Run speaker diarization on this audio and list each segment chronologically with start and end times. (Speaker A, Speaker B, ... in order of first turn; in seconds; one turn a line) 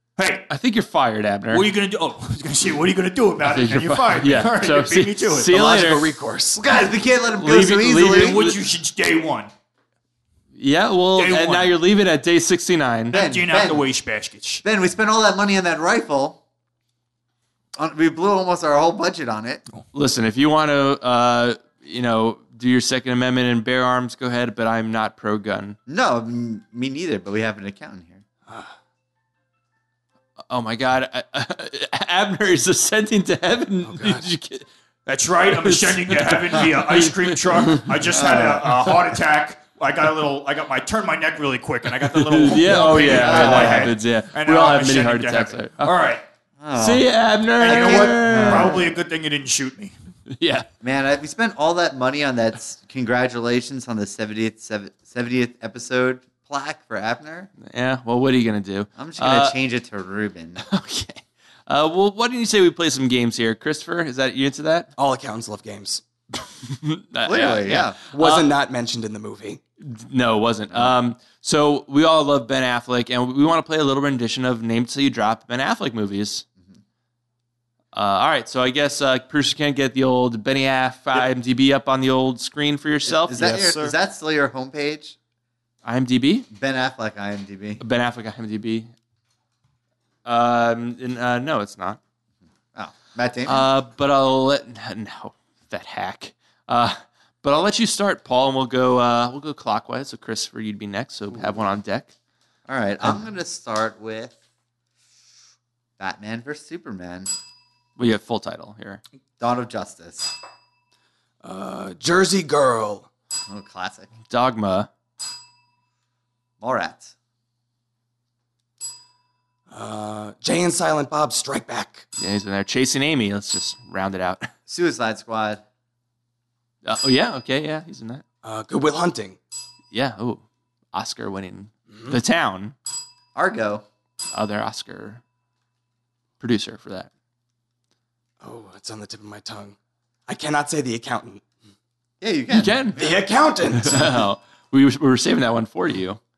Speaker A: 0.2-0.5
Speaker B: 0.5-1.7
Speaker A: 1.5-5.5
Speaker B: 3.4-6.1
Speaker C: 5.5-6.7
Speaker D: 6.6-8.5
Speaker B: 7.3-8.6
Speaker A: 8.0-9.5
Speaker B: 10.6-13.2
Speaker A: 11.1-11.8
Speaker A: 13.1-14.6
Speaker D: 13.1-13.9
Speaker D: 14.6-16.4
Speaker D: 17.8-19.6
Speaker B: 19.9-25.8
Speaker D: 25.9-28.2
Speaker B: 30.5-34.7
Speaker C: 33.8-34.3
Speaker A: 35.1-46.2
Speaker B: 35.5-38.7
Speaker D: 38.2-38.5
Speaker B: 42.0-45.9
Speaker D: 42.9-44.0
Speaker D: 46.6-49.0
Speaker B: 46.8-48.8
Speaker A: 47.6-49.9
Speaker B: 50.3-50.7
Speaker D: 50.8-57.5
Speaker B: 57.6-59.6
Speaker D: 59.0-60.6
Speaker B: 60.6-64.9
Speaker C: 65.0-66.0
Speaker B: 66.6-68.5
Speaker D: 67.2-68.0
Speaker C: 68.0-69.6
Speaker B: 69.8-76.5
Speaker B: 77.9-83.5
Speaker D: 83.1-85.2
Speaker A: 83.3-84.0
Speaker B: 85.8-86.5
Speaker D: 86.5-87.8
Speaker B: 87.8-88.9
Speaker B: 90.2-92.0
Speaker D: 92.7-93.7
Speaker B: 93.5-102.1
Speaker D: 101.3-101.6
Speaker D: 102.7-104.4
Speaker D: 106.0-107.3
Speaker B: 108.0-109.0
Speaker D: 109.4-110.3
Speaker C: 111.4-113.1
Speaker D: 113.5-114.1
Speaker B: 114.3-114.9
Speaker D: 116.6-117.1
Speaker C: 119.7-122.1
Speaker B: 122.2-124.5
Speaker D: 124.7-125.6
Speaker B: 126.8-128.2
Speaker C: 128.4-129.4
Speaker B: 129.9-132.8
Speaker C: 131.9-132.2
Speaker D: 133.3-133.8
Speaker B: 134.3-135.2
Speaker B: 136.4-137.1
Speaker C: 138.4-139.8
Speaker C: 140.3-141.4
Speaker D: 142.2-143.2
Speaker B: 142.5-143.1
Speaker C: 142.9-144.2
Speaker B: 143.7-146.2